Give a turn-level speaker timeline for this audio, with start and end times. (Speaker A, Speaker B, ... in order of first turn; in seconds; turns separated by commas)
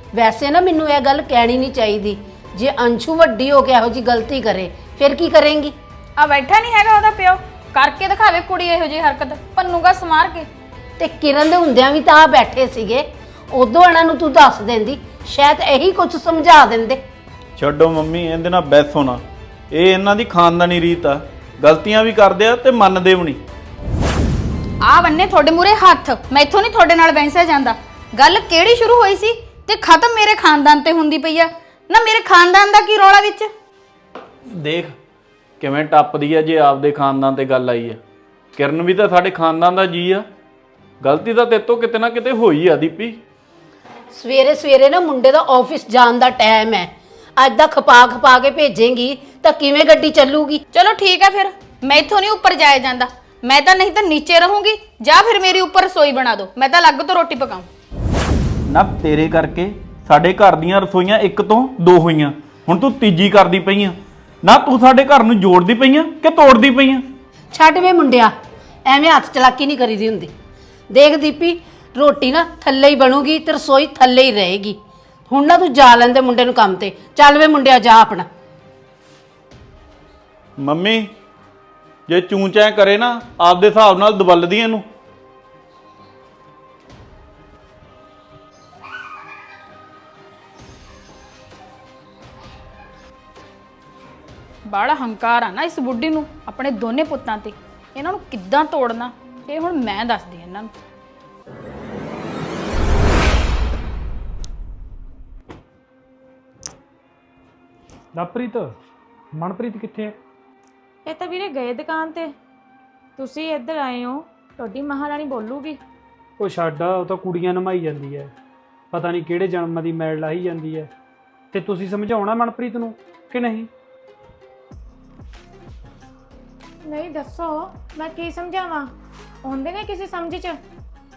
Speaker A: 0.1-5.8, Speaker B: 6.2-10.5, Speaker A: 11.0-17.0, Speaker C: 17.6-19.2, Speaker C: 19.7-23.4, Speaker B: 24.8-33.5, Speaker C: 34.6-35.0, Speaker C: 35.6-38.0, Speaker C: 38.6-40.2, Speaker C: 41.0-43.2, Speaker A: 44.1-50.6, Speaker B: 50.7-57.7, Speaker C: 58.7-67.0, Speaker A: 67.5-68.3, Speaker A: 68.9-70.3, Speaker A: 70.9-74.8, Speaker A: 75.3-78.3, Speaker C: 80.6-81.1, Speaker C: 82.1-84.8, Speaker B: 94.7-100.7, Speaker D: 108.2-108.7, Speaker D: 109.4-110.1, Speaker E: 111.0-112.3, Speaker E: 113.2-115.8, Speaker D: 116.4-118.3, Speaker D: 118.9-120.9, Speaker D: 121.5-123.7, Speaker E: 126.8-128.9, Speaker E: 129.4-130.6